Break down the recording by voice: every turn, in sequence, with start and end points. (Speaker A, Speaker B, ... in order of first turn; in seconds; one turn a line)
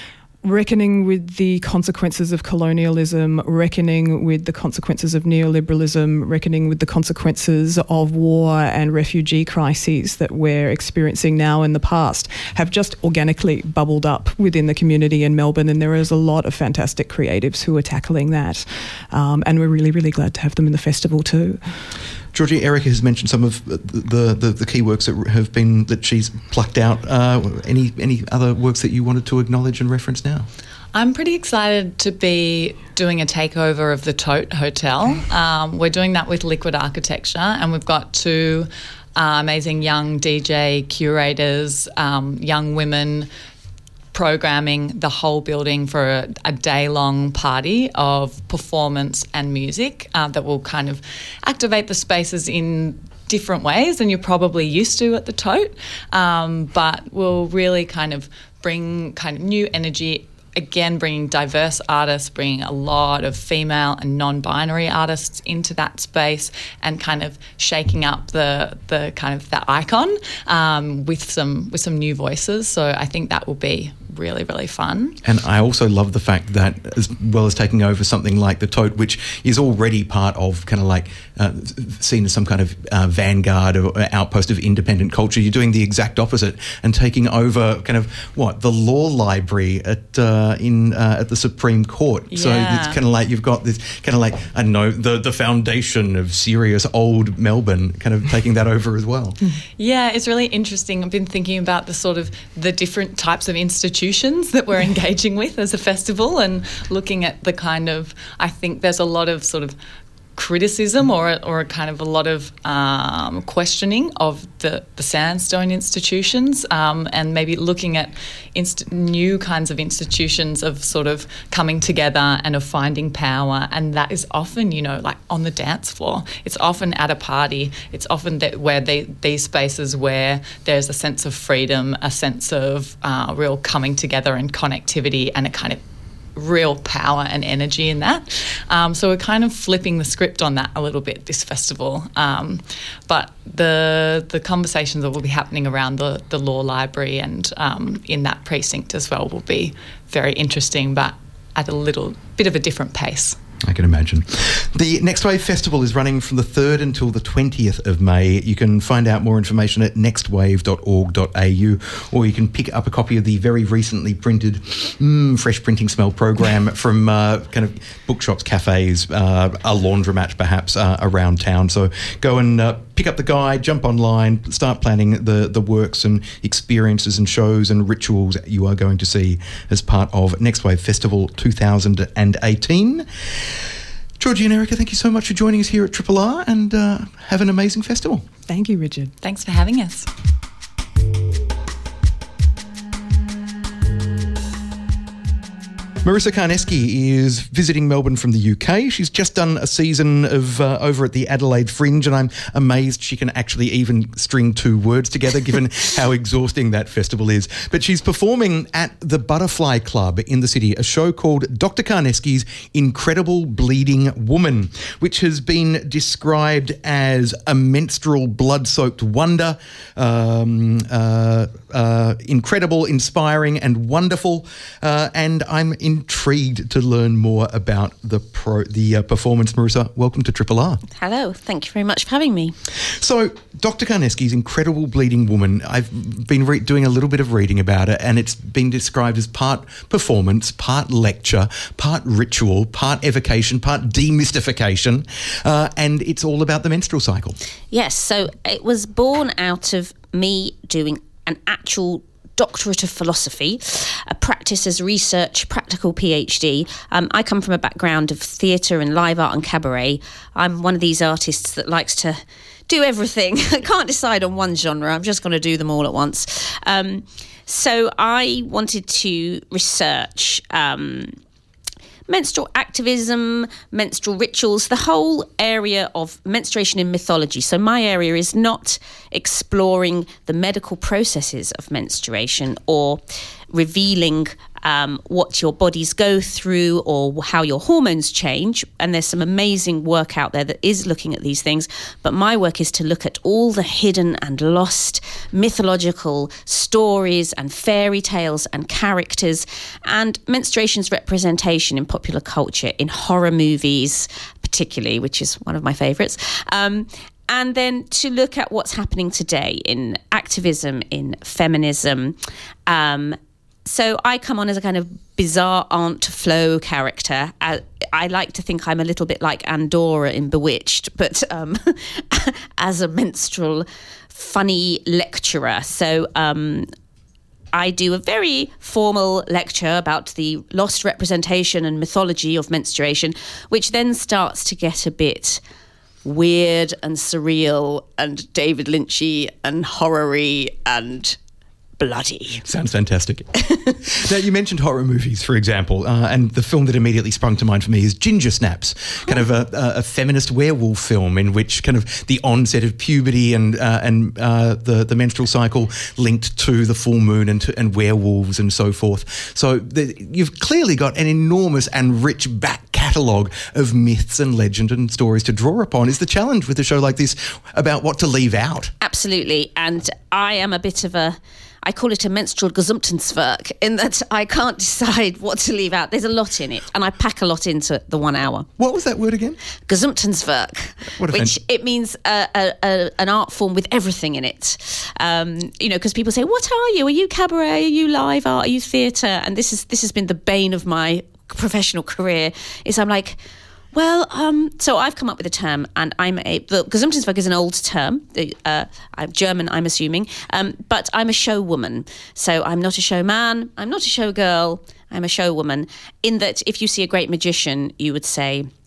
Speaker A: 0.4-21.6
Speaker B: 22.3-30.5
Speaker C: 30.9-43.3
Speaker C: 44.1-75.2
Speaker B: 75.2-99.4
Speaker C: 92.3-93.0
Speaker C: 99.8-109.8
Speaker C: 110.3-135.8
Speaker C: 136.3-153.4
Speaker B: 153.6-183.6
Speaker B: 184.2-188.2
Speaker A: 188.5-189.1
Speaker C: 189.2-190.1
Speaker B: 196.0-230.8
Speaker D: 230.9-232.5
Speaker B: 232.9-247.4
Speaker D: 247.7-271.1
Speaker D: 272.1-283.0
Speaker D: 283.5-312.2
Speaker D: 312.7-326.7
Speaker D: 327.5-335.4
Speaker D: 336.0-341.2
Speaker D: 341.8-342.4
Speaker B: 342.4-368.7
Speaker D: 368.8-378.5
Speaker B: 378.6-379.4
Speaker D: 379.7-393.2
Speaker B: 381.0-381.4
Speaker D: 393.7-408.5